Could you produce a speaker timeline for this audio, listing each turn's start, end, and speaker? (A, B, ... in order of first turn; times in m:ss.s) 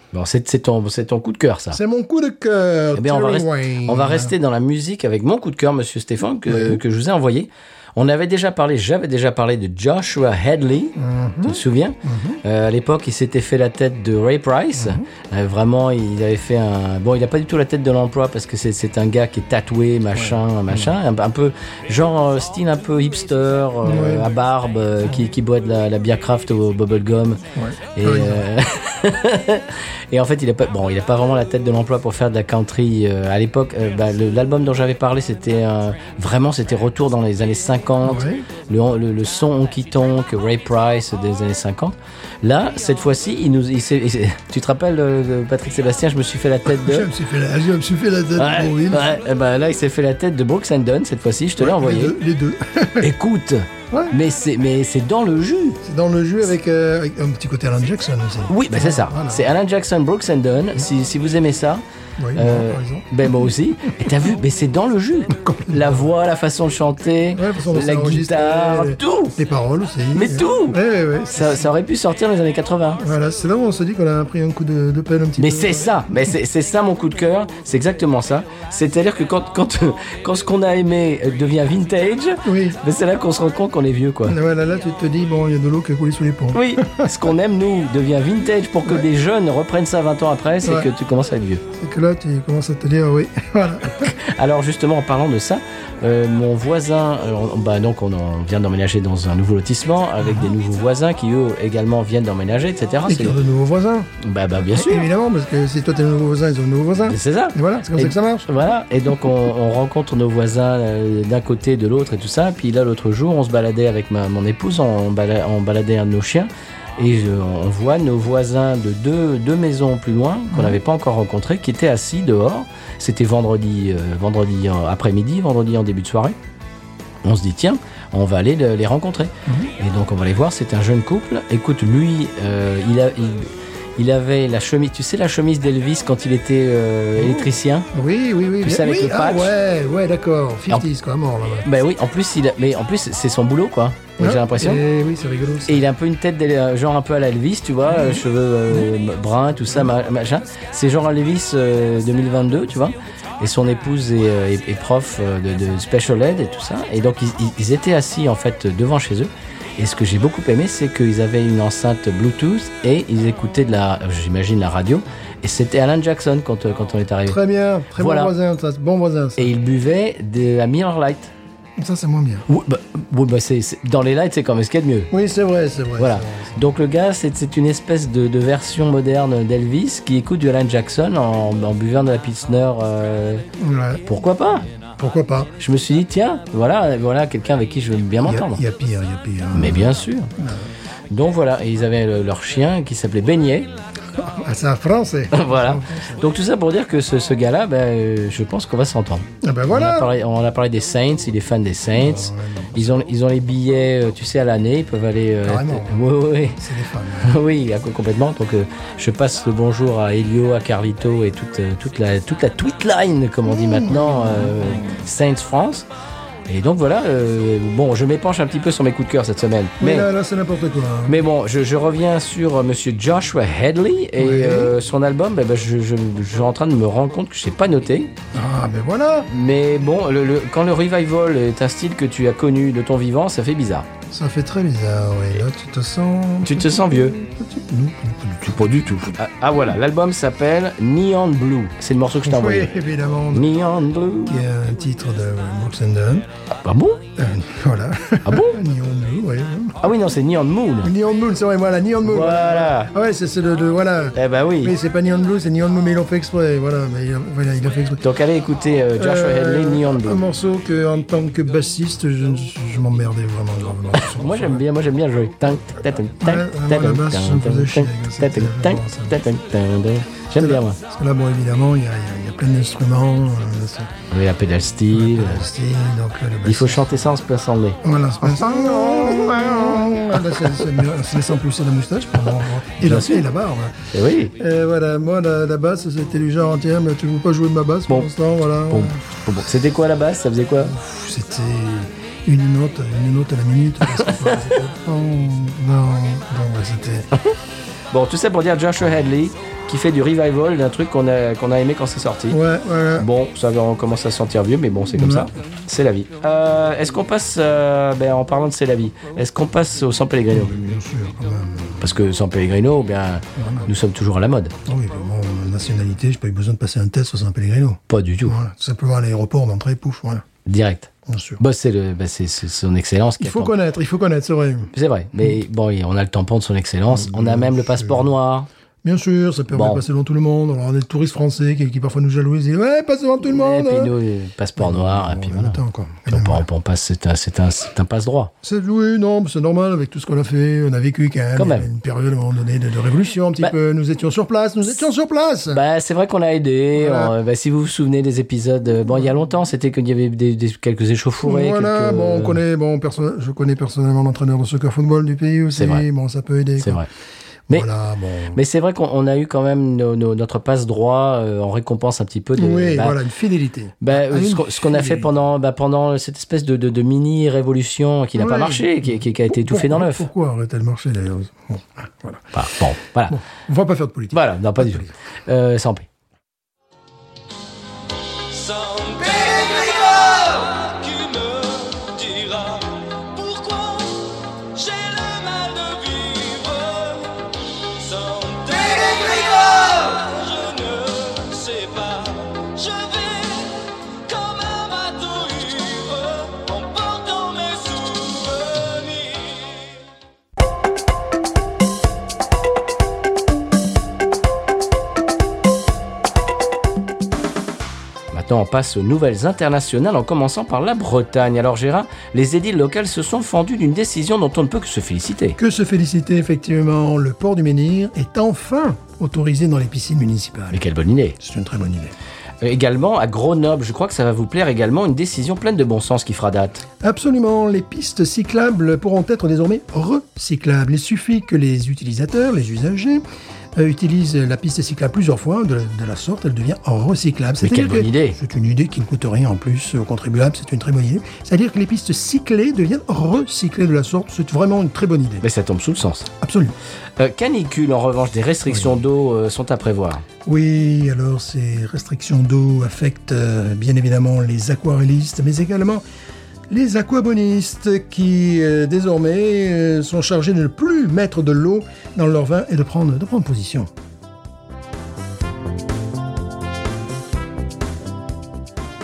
0:00.1-0:01.8 A
0:01.7-0:04.3 B
0:02.9-0:27.4 A
0:06.5-0:06.8 B
0:11.0-0:12.4 B
0:14.8-0:15.0 B
0:20.1-0:20.9 B
0:23.8-0:24.3 B
0:27.5-0:28.4 B
0:27.9-0:47.1 A
0:38.0-0:38.5 B
0:46.6-0:49.1 B
0:48.4-0:52.2 A
0:51.6-0:53.1 B
0:53.0-0:55.8 A
0:55.8-0:59.5 B
0:58.5-1:01.8 A
1:02.2-1:03.1 B
1:02.3-1:09.4 A
1:05.3-1:06.0 B
1:07.3-1:11.8 B
1:10.1-1:10.8 A
1:11.3-1:13.0 A
1:13.0-1:16.0 B
1:15.4-1:24.4 A
1:22.4-1:22.8 B
1:24.2-1:27.1 B
1:26.5-1:31.6 A
1:30.6-1:30.9 B
1:31.7-1:34.1 B
1:34.0-1:43.4 A
1:40.2-1:40.5 B
1:43.0-1:44.1 B
1:44.2-1:45.1 A
1:44.6-1:48.5 B
1:47.0-2:06.4 A
2:00.5-2:00.8 B
2:07.2-2:17.9 A
2:09.4-2:09.7 B
2:17.2-2:21.7 B
2:18.6-2:19.5 A
2:21.6-2:24.8 A
2:24.2-2:25.8 B
2:25.7-2:47.4 A
2:27.9-2:28.2 B
2:47.3-2:49.5 B
2:47.9-2:48.3 A
2:49.4-2:51.3 A
2:51.8-2:52.5 B
2:52.5-2:55.1 A
2:55.1-2:56.6 B
2:56.0-3:03.4 A
3:03.6-3:04.0 B
3:04.0-3:04.6 A
3:05.0-3:05.5 B
3:05.6-3:08.6 A
3:08.2-3:10.7 B
3:09.5-3:10.3 A
3:11.1-3:13.7 A
3:14.1-3:16.2 B
3:15.3-3:26.6 A
3:19.4-3:20.1 B
3:21.9-3:23.0 B
3:25.4-3:27.3 B
3:27.2-3:35.9 A
3:33.4-3:35.0 B
3:36.5-3:40.1 A
3:39.8-3:41.2 B
3:41.0-3:48.1 A
3:44.2-3:44.7 B
3:48.3-3:49.3 B
3:49.3-3:53.9 A
3:54.1-3:59.2 B
3:56.4-3:57.2 A
3:58.6-4:02.7 A
4:02.2-4:03.5 B
4:03.3-4:04.4 A
4:04.3-4:06.2 B
4:06.6-4:07.0 A
4:07.2-4:09.8 B
4:08.2-4:08.6 A
4:09.8-4:10.9 A
4:10.8-4:18.0 B
4:12.0-4:12.9 A
4:14.2-4:14.7 A
4:18.0-4:20.2 A
4:19.0-4:24.6 B
4:24.1-4:30.8 A
4:26.2-4:29.2 B
4:30.4-4:33.9 B
4:34.1-4:35.4 A
4:34.9-4:37.0 B
4:36.4-4:40.0 A
4:37.8-4:49.0 B
4:42.8-4:43.3 A
4:43.9-4:44.3 A
4:48.7-4:50.7 A
4:50.6-4:57.1 B
4:53.9-4:54.4 A
4:57.9-5:02.4 A
5:02.3-5:03.1 B
5:03.0-5:10.5 A
5:04.9-5:05.3 B
5:10.3-5:11.8 B
5:11.8-5:14.5 A
5:13.4-5:13.7 B
5:14.6-5:20.2 B
5:17.9-5:18.4 A
5:20.4-5:23.5 A
5:21.0-5:21.4 B
5:23.2-5:24.7 B
5:24.7-5:28.5 A
5:26.9-5:28.1 B
5:28.8-5:33.9 B
5:29.5-5:29.8 A
5:33.2-5:38.3 A
5:34.6-5:36.4 B
5:38.4-5:45.6 B
5:41.4-5:41.7 A
5:45.5-5:52.4 A
5:46.8-5:47.1 B
5:51.2-5:56.8 B
5:55.5-5:55.8 A
5:56.6-5:56.9 A
5:57.5-5:58.4 B
5:58.3-6:03.0 A
6:02.4-6:05.1 B
6:03.8-6:10.1 A
6:08.2-6:12.3 B
6:12.3-6:13.2 A
6:13.1-6:14.9 B
6:14.1-6:15.9 A
6:18.3-6:27.2 C
6:27.8-6:33.5 C
6:34.1-6:39.6 C
6:35.4-6:35.8 A
6:48.1-6:55.4 A
6:55.4-7:00.6 B
7:00.5-7:01.2 A
7:01.2-7:01.9 B
7:02.4-7:06.6 A
7:06.8-7:13.0 B
7:13.5-7:25.2 B
7:17.4-7:18.2 A
7:25.2-7:26.1 A
7:26.2-7:26.5 B
7:27.0-7:30.0 A
7:30.2-7:35.8 B
7:36.5-7:43.7 B